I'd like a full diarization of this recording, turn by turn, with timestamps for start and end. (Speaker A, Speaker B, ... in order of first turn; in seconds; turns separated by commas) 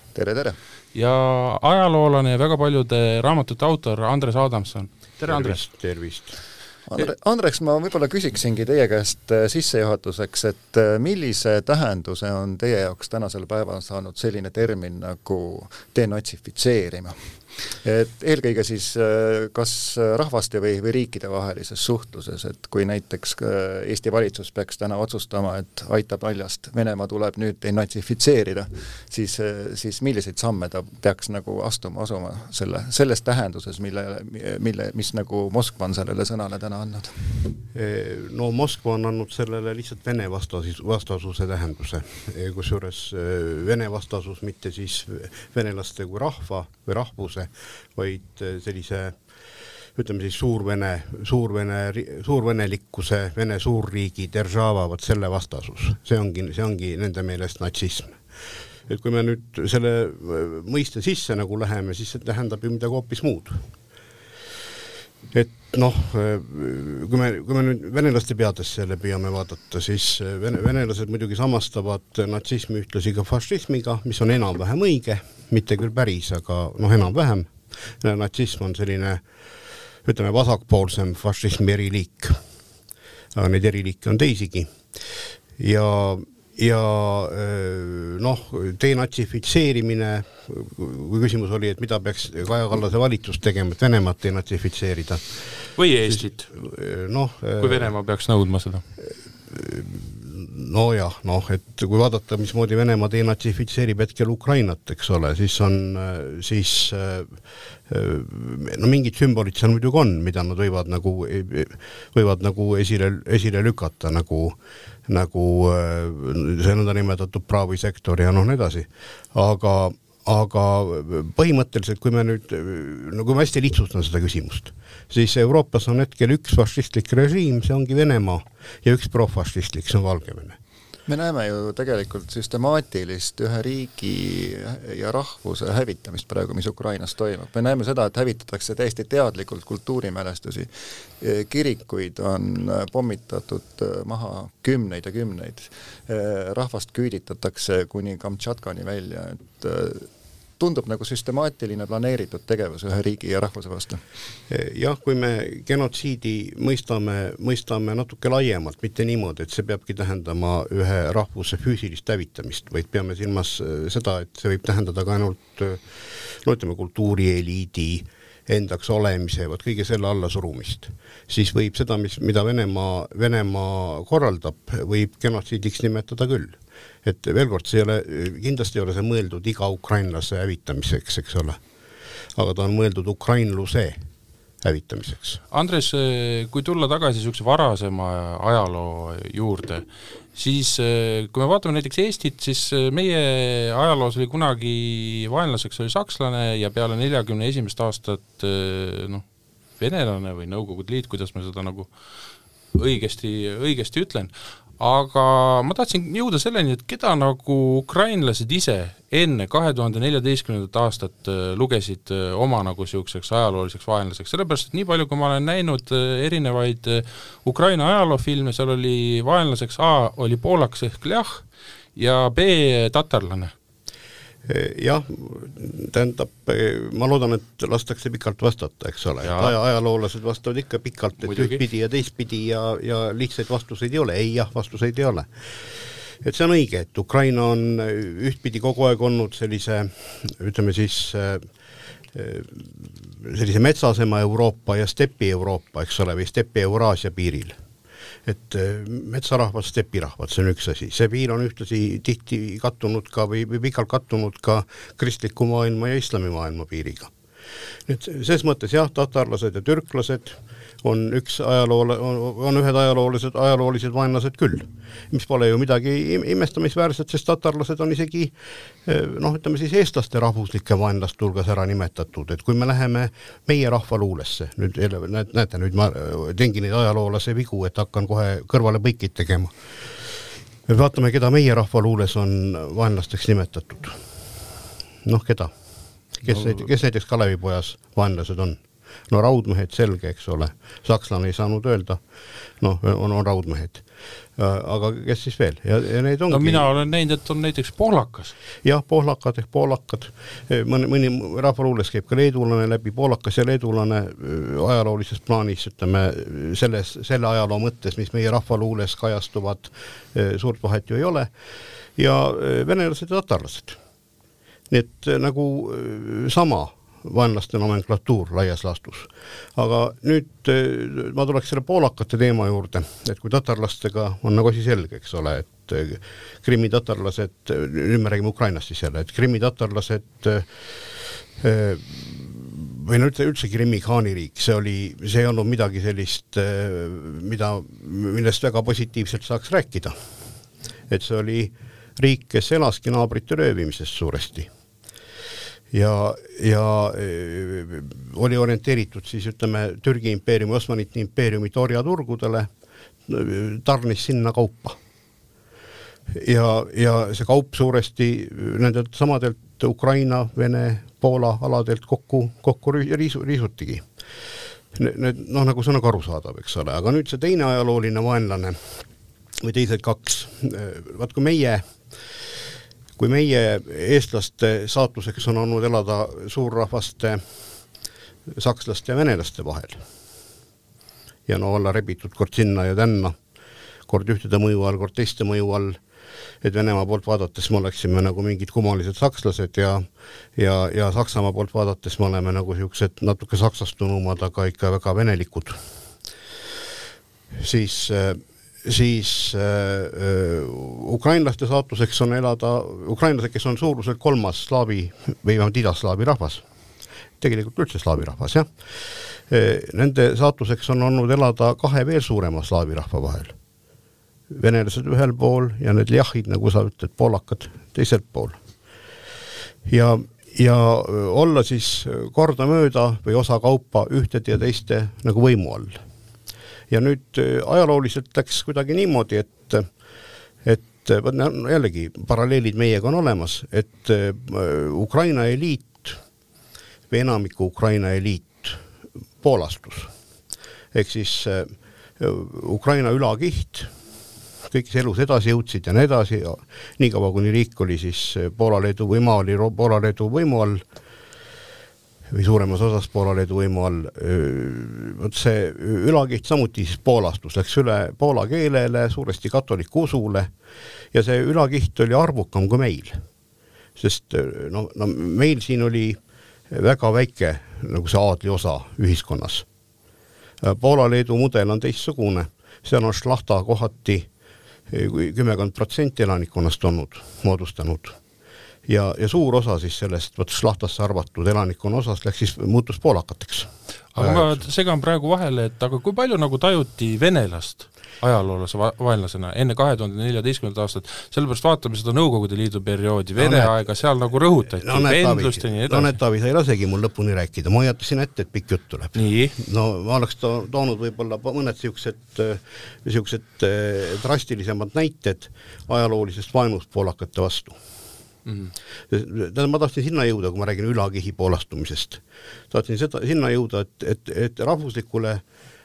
Speaker A: 0.1-0.6, Speaker B: 0.9-5.6, Speaker C: 5.3-6.3, Speaker A: 6.9-37.5, Speaker C: 37.7-49.2, Speaker C: 50.0-58.2, Speaker C: 58.9-63.7, Speaker C: 65.3-79.2, Speaker C: 80.0-82.4, Speaker C: 83.3-84.8, Speaker C: 85.6-95.2, Speaker B: 95.8-96.5, Speaker C: 96.1-97.9, Speaker B: 97.6-98.8, Speaker C: 99.5-107.4, Speaker C: 107.9-130.6, Speaker A: 131.1-140.7, Speaker A: 141.2-150.1, Speaker A: 150.6-154.0, Speaker C: 154.5-181.6, Speaker C: 182.3-184.0, Speaker C: 184.6-185.4, Speaker B: 185.5-199.2, Speaker B: 199.8-201.9, Speaker B: 202.7-221.4, Speaker B: 222.0-223.5, Speaker C: 224.5-241.4, Speaker B: 229.2-229.6, Speaker B: 231.2-231.6, Speaker C: 242.1-247.6, Speaker C: 248.3-257.1, Speaker C: 257.9-268.3, Speaker C: 268.9-279.5, Speaker C: 280.7-284.0, Speaker C: 285.0-285.5, Speaker C: 286.2-292.0, Speaker C: 292.6-293.8, Speaker C: 294.4-296.7, Speaker B: 296.3-298.3, Speaker C: 298.6-311.3, Speaker C: 312.0-313.8, Speaker C: 314.7-339.9, Speaker C: 340.9-344.5, Speaker C: 345.7-352.5, Speaker C: 353.1-354.8, Speaker C: 356.1-363.9, Speaker C: 364.7-368.6, Speaker C: 369.4-371.7, Speaker C: 373.0-377.2, Speaker C: 378.3-379.8, Speaker C: 381.3-383.2, Speaker C: 383.9-385.8, Speaker C: 386.4-389.9, Speaker C: 390.4-395.6, Speaker C: 397.3-406.4, Speaker C: 407.2-408.5, Speaker C: 409.3-413.3, Speaker C: 414.3-418.4, Speaker C: 419.7-425.8, Speaker C: 426.7-429.7, Speaker C: 430.4-436.0, Speaker C: 436.9-438.6, Speaker C: 439.2-439.9, Speaker C: 440.7-443.7, Speaker C: 444.5-450.6, Speaker C: 452.1-460.3, Speaker C: 460.9-463.0, Speaker C: 463.8-466.0, Speaker C: 466.5-469.5, Speaker C: 470.4-474.1, Speaker C: 474.7-478.0, Speaker C: 478.7-484.4, Speaker B: 483.9-495.9, Speaker C: 493.2-493.6, Speaker C: 494.6-507.6, Speaker B: 499.0-499.4, Speaker B: 508.3-508.5, Speaker C: 508.9-515.2